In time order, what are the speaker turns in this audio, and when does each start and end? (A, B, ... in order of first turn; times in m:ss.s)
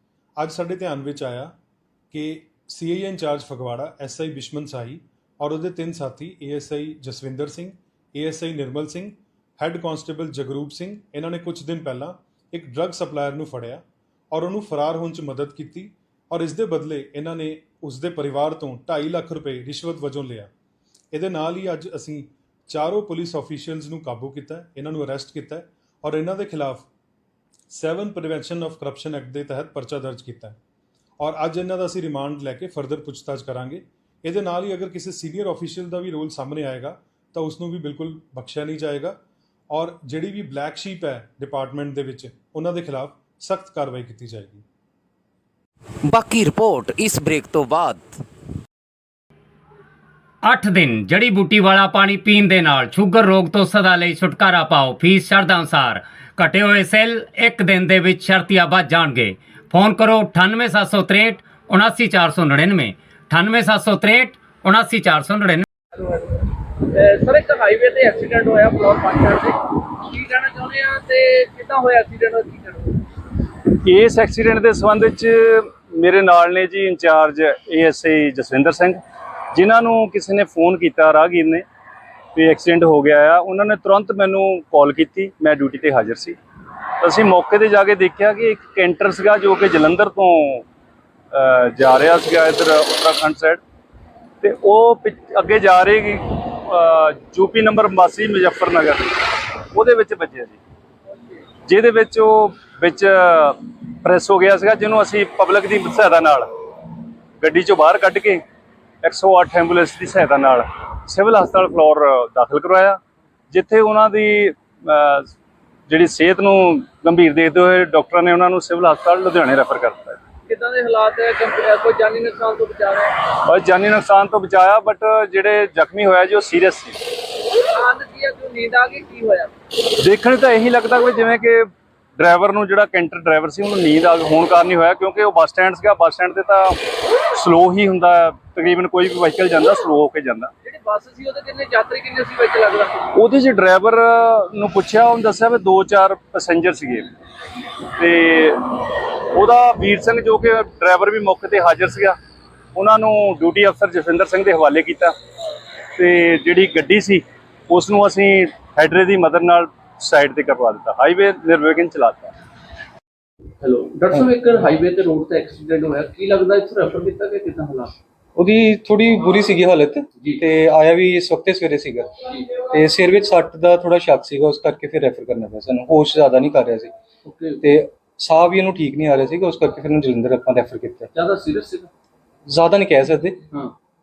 0:00.4-0:01.5 A
0:02.1-0:20.5 A
0:21.1-0:26.9 A
0:27.7-0:30.6 A
0:31.2-0:39.2 A
0:39.7-0:44.6 A
0:46.0-0:48.2 B
0:50.4-1:05.6 C
1:06.0-1:13.0 D
1:13.7-1:19.0 E
1:19.5-1:21.6 E
1:22.3-1:26.4 E
1:27.0-1:30.6 E
1:31.3-1:33.6 E
1:34.4-1:40.6 E
1:41.6-1:46.5 E
1:47.4-1:48.4 E
1:49.0-1:53.0 E
1:53.5-1:55.3 E
1:55.9-2:00.2 E
2:00.5-2:03.2 D
2:03.3-2:07.0 E
2:07.7-2:09.5 D
2:10.0-2:11.6 E
2:12.2-2:20.5 E
2:20.6-2:23.1 D
2:23.1-2:27.1 E
2:28.0-2:32.2 E
2:32.7-2:35.1 E
2:36.0-2:42.3 E
2:43.6-2:47.9 D
2:48.4-2:56.9 F
2:57.3-2:57.6 D
2:57.6-3:01.1 F
3:01.1-3:01.9 D
3:02.5-3:03.4 F